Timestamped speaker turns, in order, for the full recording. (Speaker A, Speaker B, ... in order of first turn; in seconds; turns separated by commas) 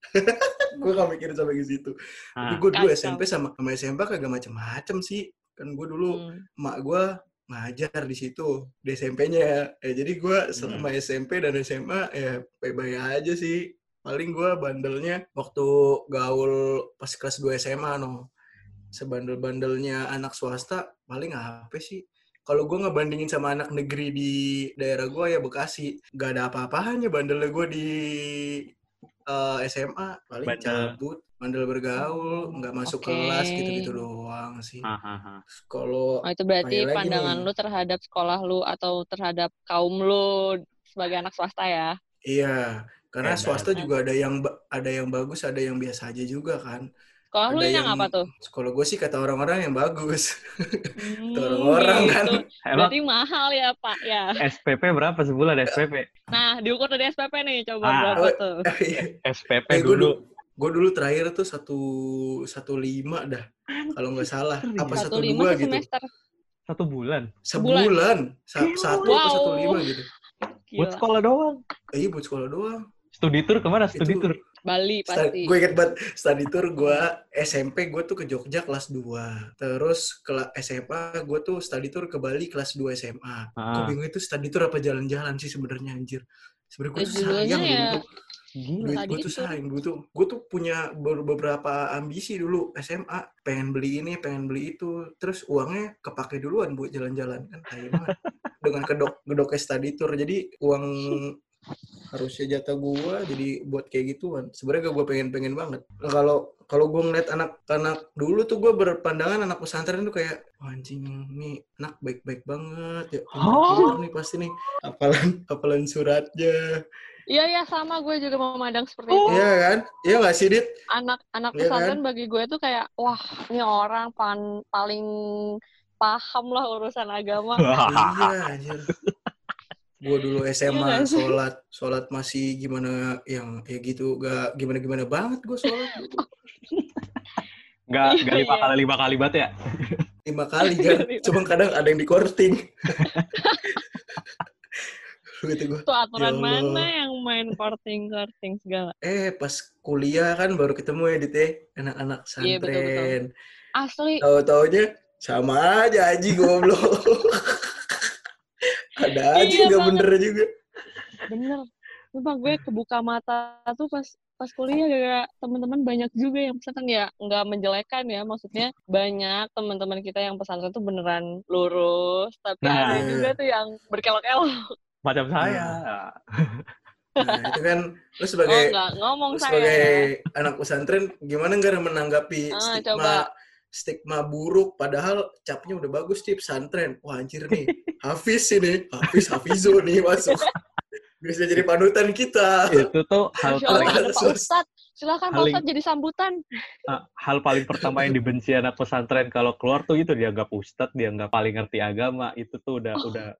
Speaker A: 0.1-18.2, Speaker B: 2.4-2.6, Speaker C: 2.7-3.2, Speaker C: 6.1-6.4, Speaker B: 10.6-10.9, Speaker A: 18.9-28.6, Speaker A: 29.3-34.8, Speaker B: 30.5-30.9, Speaker C: 32.0-33.8, Speaker B: 34.9-35.4, Speaker A: 35.6-36.1, Speaker C: 36.3-41.9, Speaker A: 36.6-37.4, Speaker A: 42.3-46.8, Speaker B: 43.2-43.8, Speaker C: 47.3-48.2, Speaker A: 47.5-52.4, Speaker C: 51.0-54.3, Speaker B: 52.7-52.9, Speaker B: 54.4-56.0, Speaker C: 56.3-58.6, Speaker B: 57.8-58.2, Speaker A: 58.2-59.1, Speaker B: 59.2-60.1, Speaker A: 59.7-61.8, Speaker A: 62.5-65.8, Speaker B: 63.7-65.0, Speaker C: 64.9-66.0, Speaker B: 66.7-67.3, Speaker A: 67.5-70.1, Speaker C: 67.6-67.9, Speaker B: 68.6-69.2, Speaker C: 69.0-69.8, Speaker C: 70.6-71.0, Speaker B: 70.8-71.6, Speaker A: 71.9-72.8, Speaker B: 73.1-74.4, Speaker A: 73.9-74.3, Speaker C: 74.7-75.5, Speaker A: 75.1-88.0, Speaker B: 83.6-83.9, Speaker C: 87.0-87.9, Speaker B: 88.6-89.0, Speaker A: 88.8-101.3, Speaker C: 88.9-89.5, Speaker B: 97.9-98.2, Speaker A: 102.1-116.6, Speaker B: 113.4-114.0, Speaker C: 117.3-119.3, Speaker B: 119.1-119.4, Speaker A: 119.3-120.7, Speaker C: 121.0-125.0, Speaker A: 121.5-122.0, Speaker C: 126.0-127.6, Speaker B: 127.6-128.4, Speaker A: 127.8-128.9, Speaker B: 128.9-129.1, Speaker A: 130.0-136.2, Speaker C: 130.7-131.3, Speaker B: 137.9-140.0, Speaker C: 138.1-138.7, Speaker A: 140.3-143.1, Speaker C: 140.6-141.3, Speaker B: 142.9-143.3, Speaker C: 143.4-143.8, Speaker A: 144.8-146.9, Speaker C: 145.9-148.9, Speaker A: 149.0-153.3, Speaker C: 152.4-153.1, Speaker C: 153.8-154.2, Speaker A: 154.2-160.5, Speaker C: 159.3-160.1, Speaker C: 161.3-161.6, Speaker C: 162.1-174.7, Speaker B: 172.6-173.1, Speaker A: 172.9-173.3, Speaker B: 175.0-176.6, Speaker A: 175.4-175.8, Speaker A: 177.2-178.7, Speaker C: 178.5-180.0, Speaker A: 179.3-190.4, Speaker C: 182.5-183.2, Speaker B: 187.5-187.9, Speaker B: 189.1-189.7, Speaker A: 191.2-192.8, Speaker B: 192.7-194.0, Speaker C: 193.4-196.4, Speaker A: 193.7-194.5, Speaker B: 195.3-195.6, Speaker B: 196.9-203.3, Speaker A: 197.7-198.1